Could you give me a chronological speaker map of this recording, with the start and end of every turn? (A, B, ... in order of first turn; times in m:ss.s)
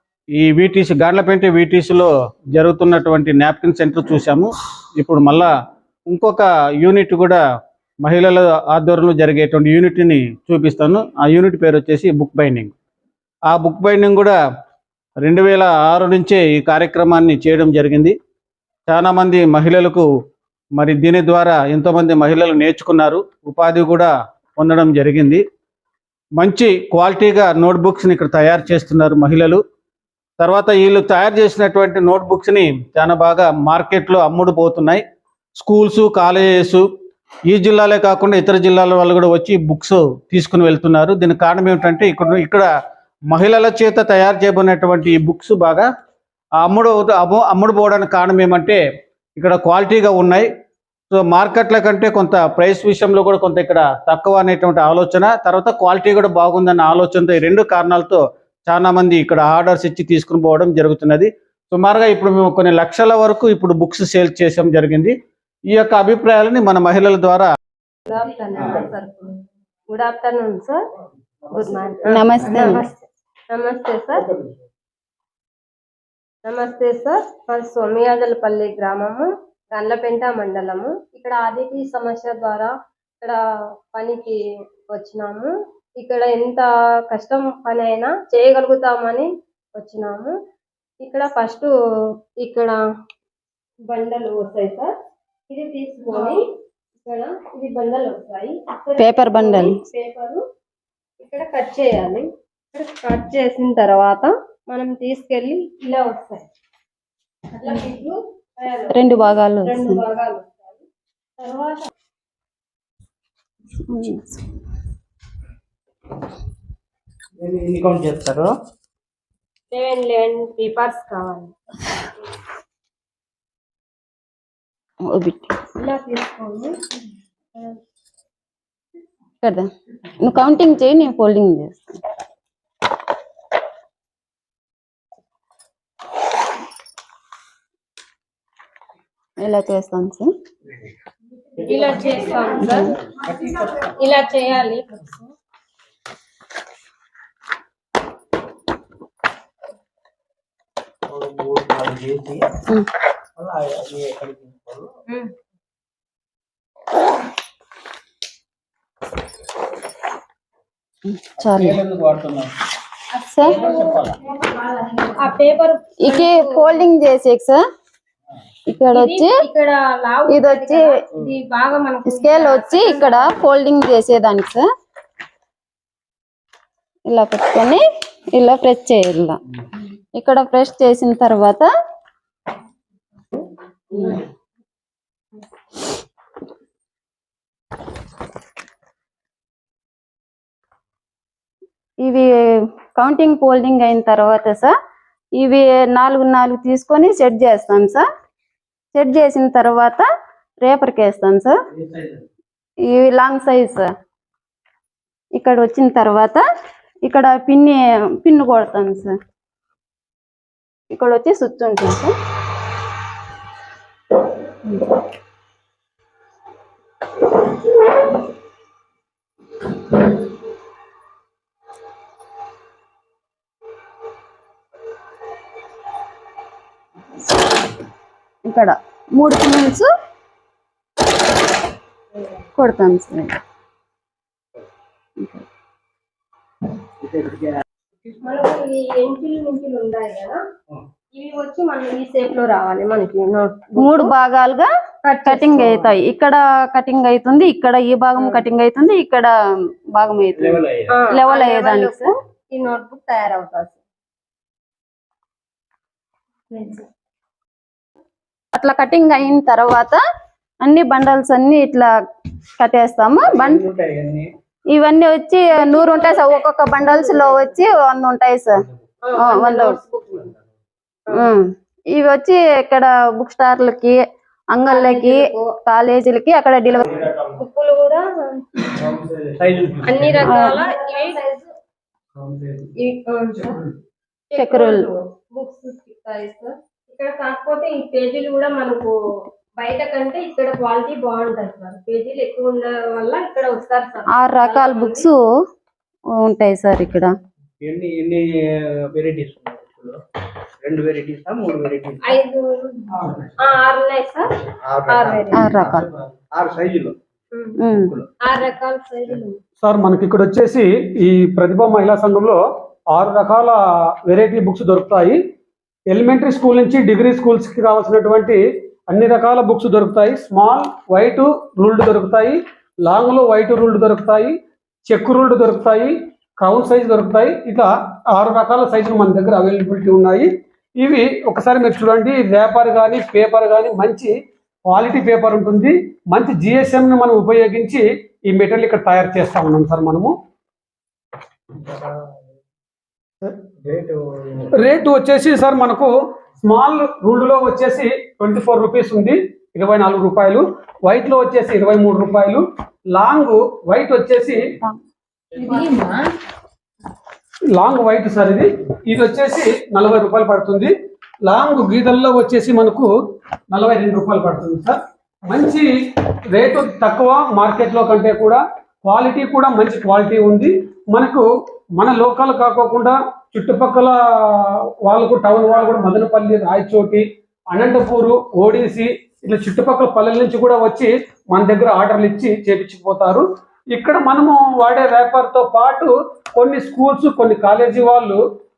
0:00.4-0:05.5 A
0:06.1-0:07.4 A
0:08.0-0:12.7 A
0:13.5-0:14.3 A
0:15.2-0:18.2 A
0:18.9-0:20.0 A
0:20.8-0:25.4 A
0:26.4-0:29.6 A
0:30.4-0:35.0 A
0:35.6-0:36.9 A
0:37.5-0:42.7 A
0:43.3-0:45.9 A
0:46.6-0:48.8 A
0:49.4-0:50.5 A
0:51.1-1:05.2 A
1:05.7-1:07.6 A
1:08.1-1:10.8 B
1:11.5-1:14.3 B
1:12.1-1:12.8 C
1:16.4-1:23.4 B
1:23.9-1:24.4 B
1:24.9-1:30.4 B
1:31.0-1:31.7 B
1:32.4-1:32.8 B
1:33.9-1:34.9 B
1:35.5-1:36.5 B
1:37.0-1:40.4 B
1:39.0-1:39.8 C
1:41.2-1:46.4 B
1:47.5-1:50.8 B
1:48.9-1:50.0 C
1:51.4-1:51.9 B
1:53.9-1:54.4 C
1:57.4-1:58.5 D
1:59.7-2:01.5 B
2:05.1-2:05.5 C
2:05.8-2:06.8 B
2:09.4-2:09.7 C
2:10.2-2:12.0 C
2:19.4-2:20.3 C
2:21.6-2:23.0 B
2:23.5-2:25.2 B
2:31.1-2:32.6 D
2:33.4-2:34.9 D
2:41.1-2:41.8 C
2:41.4-2:42.5 A
2:43.3-2:43.6 C
2:43.4-2:46.8 B
2:43.5-2:44.2 A
2:46.0-2:47.6 C
2:48.7-2:49.4 C
2:48.9-2:53.4 B
2:50.3-2:50.9 C
2:52.1-2:54.6 C
2:57.1-2:57.8 C
2:58.4-2:59.4 C
3:00.2-3:01.7 C
3:03.9-3:04.2 C
3:12.0-3:14.8 C
3:15.4-3:18.1 C
3:18.9-3:20.1 C
3:20.6-3:21.6 C
3:22.8-3:23.9 C
3:25.4-3:26.4 C
3:27.0-3:29.2 C
3:30.9-3:32.1 C
3:48.5-3:49.9 C
3:52.6-3:53.3 C
3:55.2-3:55.4 C
3:58.2-4:00.4 B
4:01.1-4:04.1 B
4:03.8-4:04.7 C
4:05.0-4:05.9 B
4:05.2-4:12.1 C
4:08.2-4:08.4 B
4:10.4-4:10.9 D
4:10.9-4:13.8 B
4:16.5-4:16.8 B
4:18.5-4:20.0 C
4:20.6-4:21.9 C
4:22.6-4:23.6 C
4:23.2-4:24.3 D
4:24.7-4:28.6 C
4:25.5-4:27.5 B
4:29.0-4:30.3 B
4:29.2-4:29.8 C
4:31.1-4:34.0 C
4:34.5-4:36.9 C
4:34.7-4:35.5 B
4:37.2-4:38.7 B
4:38.8-4:40.4 D
4:39.8-4:41.5 B
4:40.2-4:40.6 C
4:42.2-4:42.7 D
4:42.8-4:43.6 B
4:44.3-4:48.9 B
4:44.4-4:44.8 C
4:49.6-4:55.1 B
4:54.2-4:55.2 C
4:56.2-4:57.1 C
4:57.6-5:00.0 D
5:00.6-5:02.2 D
5:02.0-5:04.3 B
5:04.6-5:07.0 D
5:04.9-5:05.6 B
5:05.3-5:05.9 C
5:07.3-5:07.6 B
5:07.6-5:08.0 C
5:07.8-5:08.1 D
5:08.2-5:09.4 B
5:09.6-5:12.4 E
5:12.9-5:15.2 E
5:15.9-5:24.4 E
5:24.9-5:34.1 E
5:34.7-5:40.1 E
5:41.6-5:41.9 D
5:43.6-5:44.5 D
5:44.6-5:54.5 E
5:57.5-6:00.7 E
6:01.2-6:02.9 E
6:03.5-6:05.7 E
6:06.3-6:28.2 E